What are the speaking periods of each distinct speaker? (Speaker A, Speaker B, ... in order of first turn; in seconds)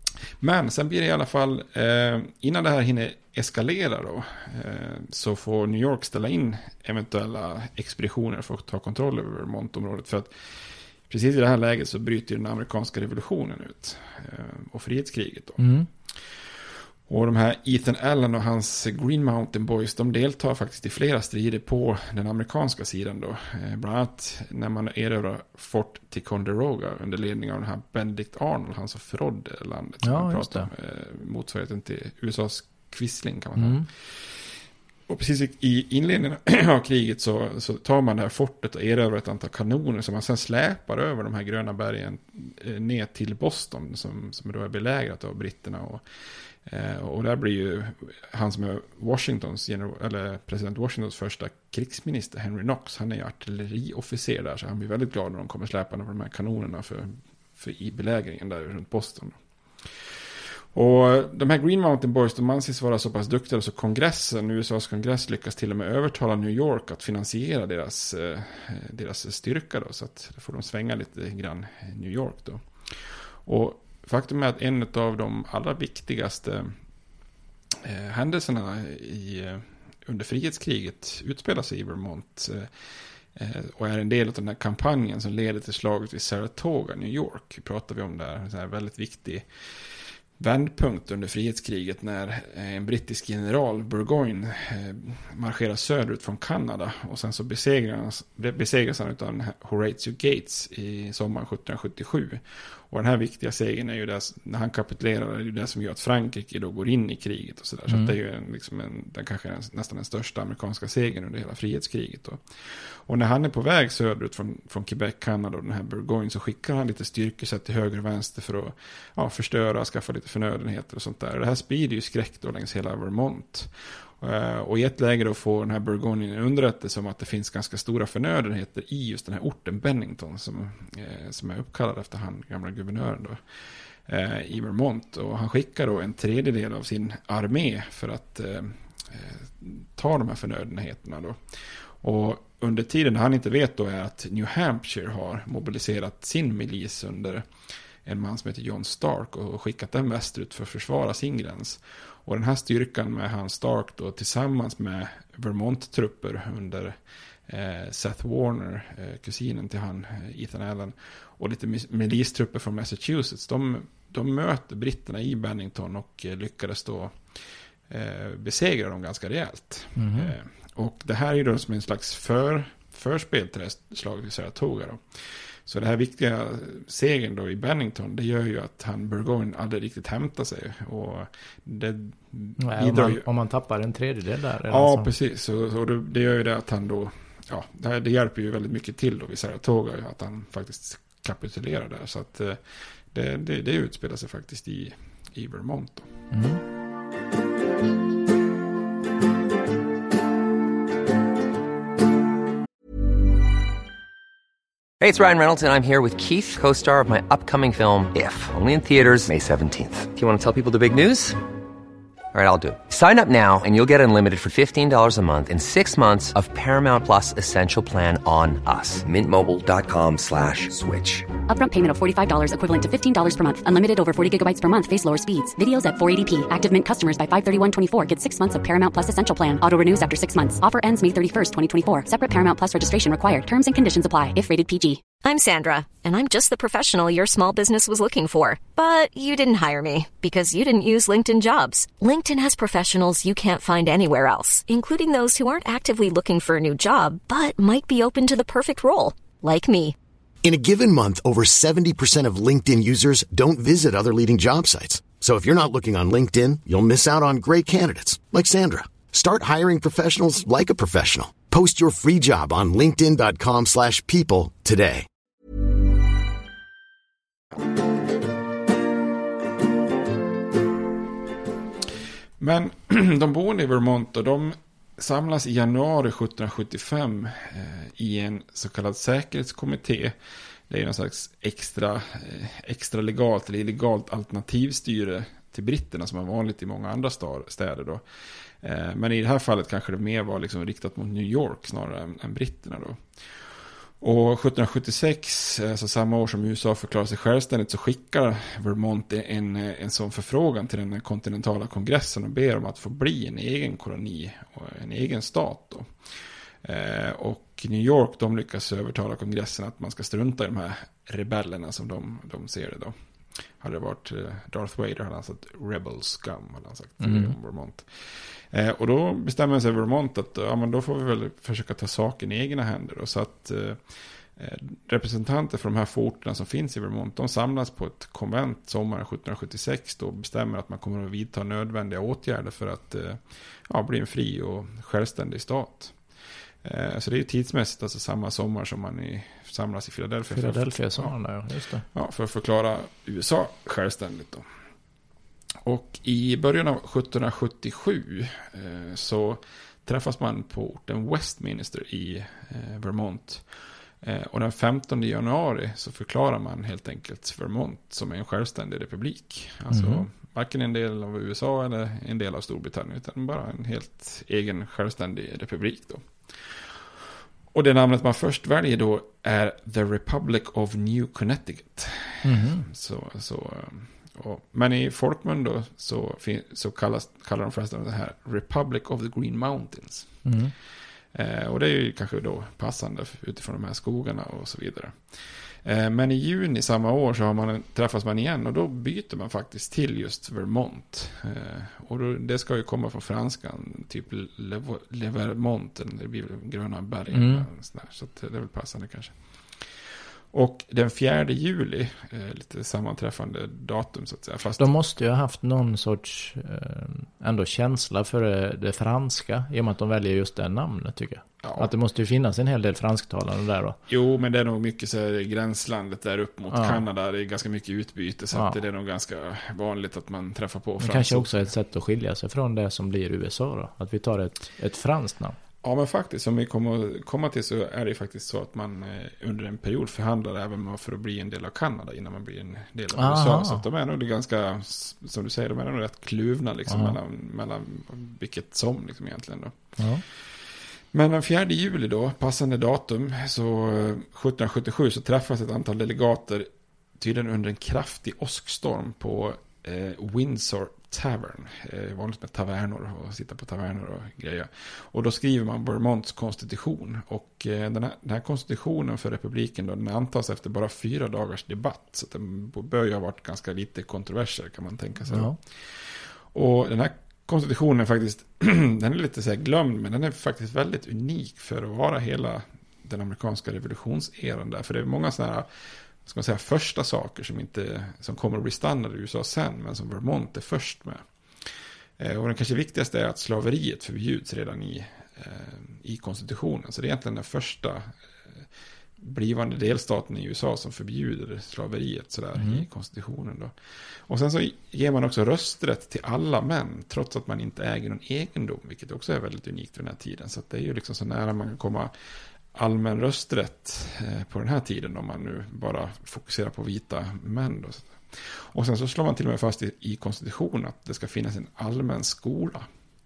Speaker A: 0.4-34.5, 35.1-46.0, 46.7-59.4, 60.7-76.7, 77.8-82.7, 83.3-89.5, 90.4-141.4, 142.0-147.5, 148.1-156.9, 157.5-167.4, 167.9-183.2, 184.7-196.1, 272.4-280.1, 280.7-288.0, 288.6-293.0, 294.0-305.9, 306.6-312.9, 313.6-336.0, 336.6-341.1, 341.9-344.4, 345.6-353.5, 354.0-366.8, 367.5-380.2, 381.1-399.7, 400.3-404.7, 411.4-411.7, 413.9-421.5, 425.6-439.6, 440.1-446.5, 447.0-475.5, 476.0-481.0, 482.0-488.4, 489.0-501.9, 502.5-512.7
Speaker B: 15.6-15.9, 30.0-30.7, 33.6-33.9, 107.9-108.1, 170.0-170.3, 182.6-185.1, 196.3-196.6, 317.0-317.3, 340.3-341.9, 359.7-360.0, 372.2-372.6, 380.2-380.5, 397.1-397.5, 404.6-413.8, 416.5-416.8, 420.8-425.4, 432.9-433.6, 436.7-437.0, 439.8-440.0, 465.1-465.4, 492.4-492.6
Speaker C: 205.0-211.4, 212.3-221.3
Speaker D: 221.5-235.0
Speaker E: 235.2-249.9
Speaker F: 250.4-265.1